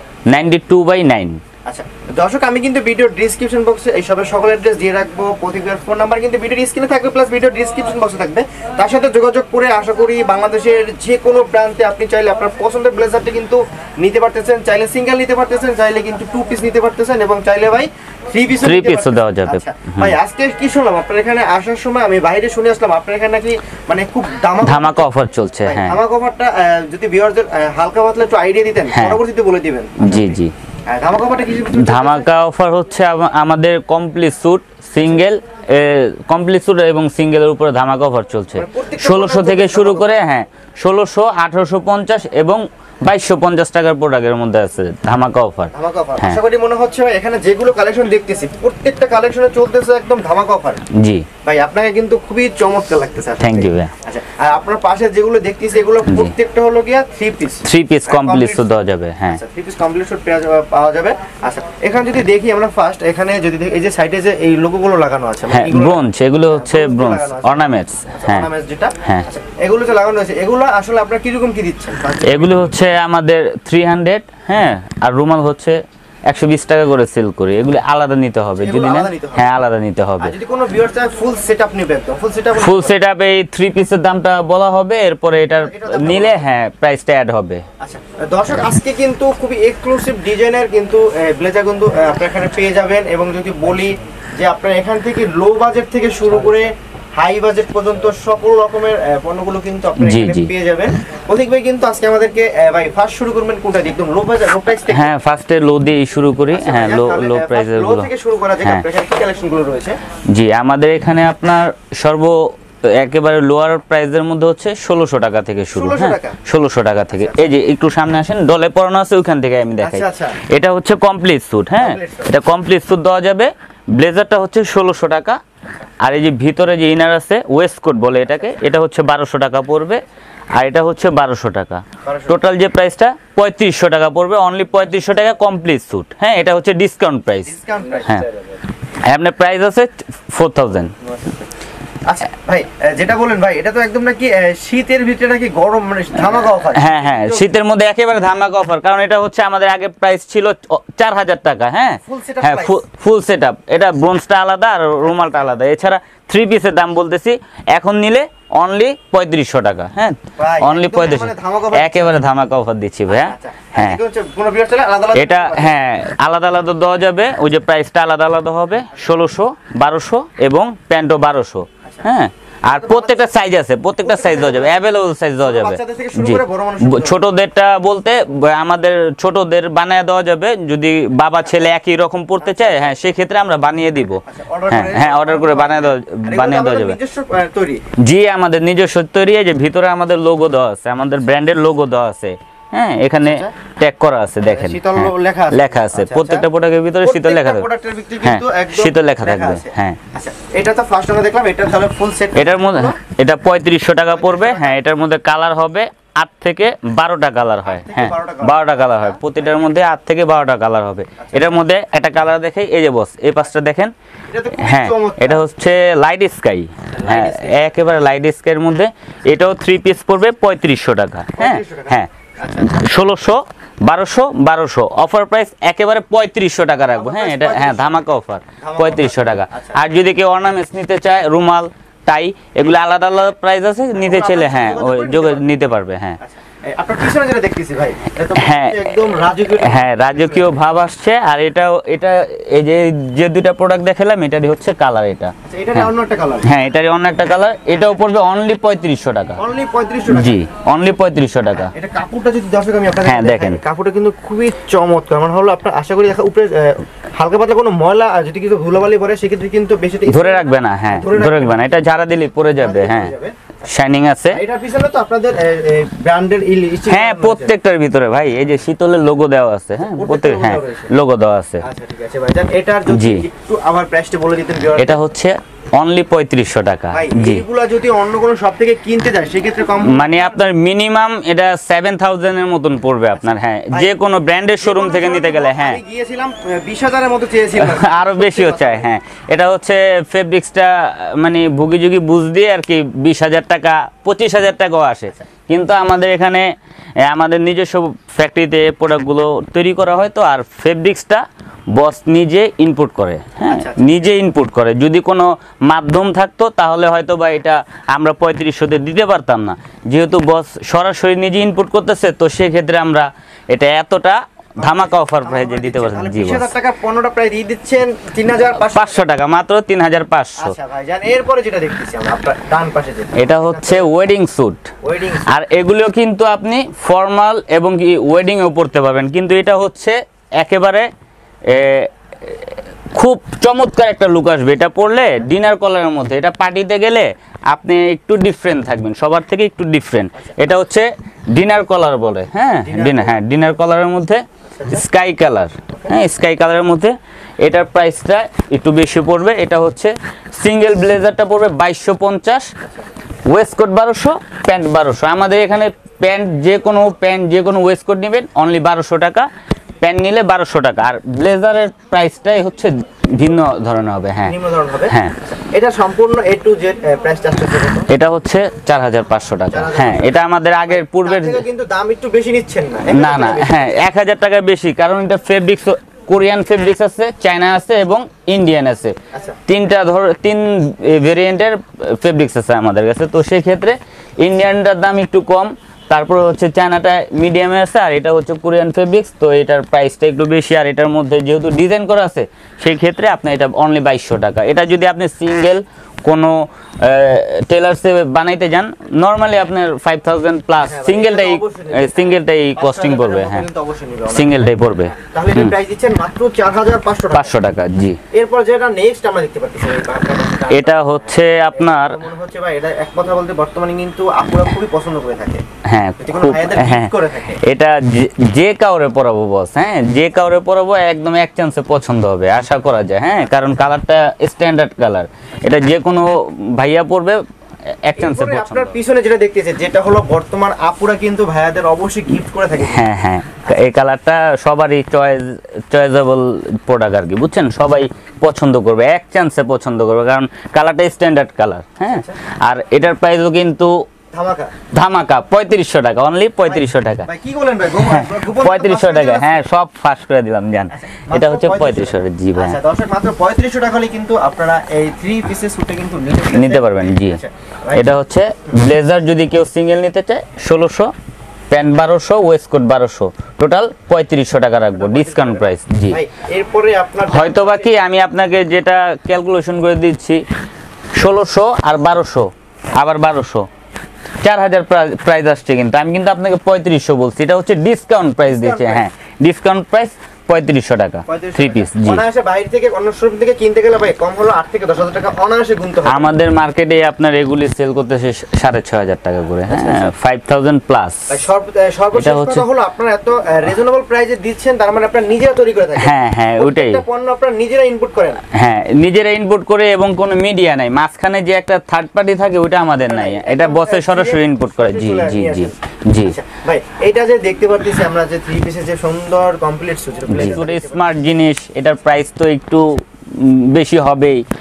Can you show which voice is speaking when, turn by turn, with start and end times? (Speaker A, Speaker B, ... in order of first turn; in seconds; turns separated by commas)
Speaker A: 0.3-1.4, Speaker B: 1.6-25.1, Speaker A: 18.6-20.1, Speaker A: 24.6-26.0, Speaker B: 25.6-32.3, Speaker A: 28.9-29.2, Speaker A: 30.0-30.5, Speaker A: 31.7-46.4, Speaker B: 38.5-40.1, Speaker B: 45.7-50.8, Speaker A: 50.9-51.3, Speaker B: 51.4-58.7, Speaker A: 53.4-53.9, Speaker A: 56.0-56.3, Speaker A: 57.6-59.4, Speaker B: 59.3-72.7, Speaker A: 65.5-68.5, Speaker A: 72.2-80.3, Speaker B: 78.6-79.5, Speaker B: 80.2-83.0, Speaker A: 82.6-87.6, Speaker B: 85.6-86.5, Speaker B: 87.8-105.1, Speaker A: 100.0-100.5, Speaker A: 104.9-108.1, Speaker B: 106.5-110.0, Speaker A: 110.3-125.4, Speaker B: 115.7-116.4, Speaker B: 117.1-117.4, Speaker B: 119.8-120.4, Speaker B: 121.8-122.3, Speaker A: 126.0-130.0, Speaker A: 130.5-138.3, Speaker B: 132.0-132.4, Speaker B: 137.4-138.3, Speaker A: 139.0-140.9, Speaker B: 141.0-141.5, Speaker B: 142.0-147.6, Speaker A: 146.6-164.0, Speaker B: 152.1-152.8, Speaker B: 155.0-155.6, Speaker B: 160.4-162.2, Speaker B: 163.1-165.8, Speaker A: 165.1-187.0, Speaker B: 172.7-173.3, Speaker B: 174.0-174.8, Speaker B: 175.4-177.2, Speaker B: 182.4-182.9, Speaker B: 184.2-187.8, Speaker A: 188.0-197.7, Speaker B: 193.2-193.5, Speaker B: 194.4-196.4, Speaker B: 197.0-203.0, Speaker A: 198.2-200.0, Speaker A: 202.3-213.9, Speaker B: 204.1-204.8, Speaker B: 207.6-209.4, Speaker B: 211.2-211.7, Speaker B: 214.3-215.4, Speaker A: 214.5-236.2, Speaker B: 216.9-217.7, Speaker B: 221.4-222.7, Speaker B: 226.9-228.0, Speaker B: 228.6-229.8, Speaker B: 233.9-235.5, Speaker B: 236.2-240.5, Speaker A: 238.3-245.9, Speaker B: 245.4-246.5, Speaker A: 246.4-249.4, Speaker B: 247.7-248.0, Speaker B: 249.4-250.4, Speaker A: 250.1-251.7, Speaker B: 251.5-261.7, Speaker A: 253.0-253.6, Speaker A: 260.1-263.1, Speaker B: 262.6-263.3, Speaker A: 263.6-264.4, Speaker B: 264.3-267.5, Speaker A: 266.9-271.6, Speaker B: 269.8-270.9, Speaker B: 271.6-275.0, Speaker A: 272.9-273.3, Speaker A: 274.8-277.4, Speaker B: 276.9-280.4, Speaker A: 279.8-285.8, Speaker B: 283.2-283.9, Speaker B: 284.6-288.9, Speaker A: 287.6-316.5, Speaker B: 303.5-303.9, Speaker B: 314.6-319.0, Speaker A: 318.7-320.6, Speaker B: 320.4-323.9, Speaker A: 323.1-324.7, Speaker B: 324.8-325.3, Speaker A: 325.2-330.9, Speaker A: 331.5-352.5, Speaker B: 342.5-343.2, Speaker B: 344.5-344.8, Speaker B: 345.7-346.0, Speaker A: 353.3-359.3, Speaker A: 359.8-364.4, Speaker B: 364.2-364.9, Speaker A: 364.9-365.1, Speaker B: 365.5-367.9, Speaker A: 367.9-371.4, Speaker B: 369.5-373.8, Speaker A: 372.9-378.9, Speaker B: 379.1-379.4, Speaker A: 379.5-403.4, Speaker B: 400.6-407.3, Speaker A: 404.1-405.5, Speaker A: 407.1-408.0, Speaker B: 408.1-415.4, Speaker A: 410.5-412.0, Speaker A: 415.6-428.7, Speaker B: 416.0-417.4, Speaker B: 428.0-432.9, Speaker A: 432.6-443.8, Speaker B: 441.9-442.1, Speaker B: 444.1-444.5, Speaker A: 444.7-447.1, Speaker B: 446.5-449.4, Speaker A: 447.8-452.6, Speaker B: 450.7-457.9, Speaker A: 456.3-457.2, Speaker A: 457.7-460.9, Speaker A: 461.5-466.0, Speaker B: 464.7-467.7, Speaker A: 467.1-470.2, Speaker A: 470.9-473.5, Speaker A: 474.2-482.0, Speaker B: 478.3-478.8, Speaker B: 481.1-486.1, Speaker A: 485.9-491.2, Speaker B: 489.5-489.9, Speaker B: 491.1-498.2, Speaker A: 491.9-492.4, Speaker A: 495.8-496.8, Speaker A: 498.3-506.2, Speaker B: 502.9-510.9, Speaker A: 510.1-514.2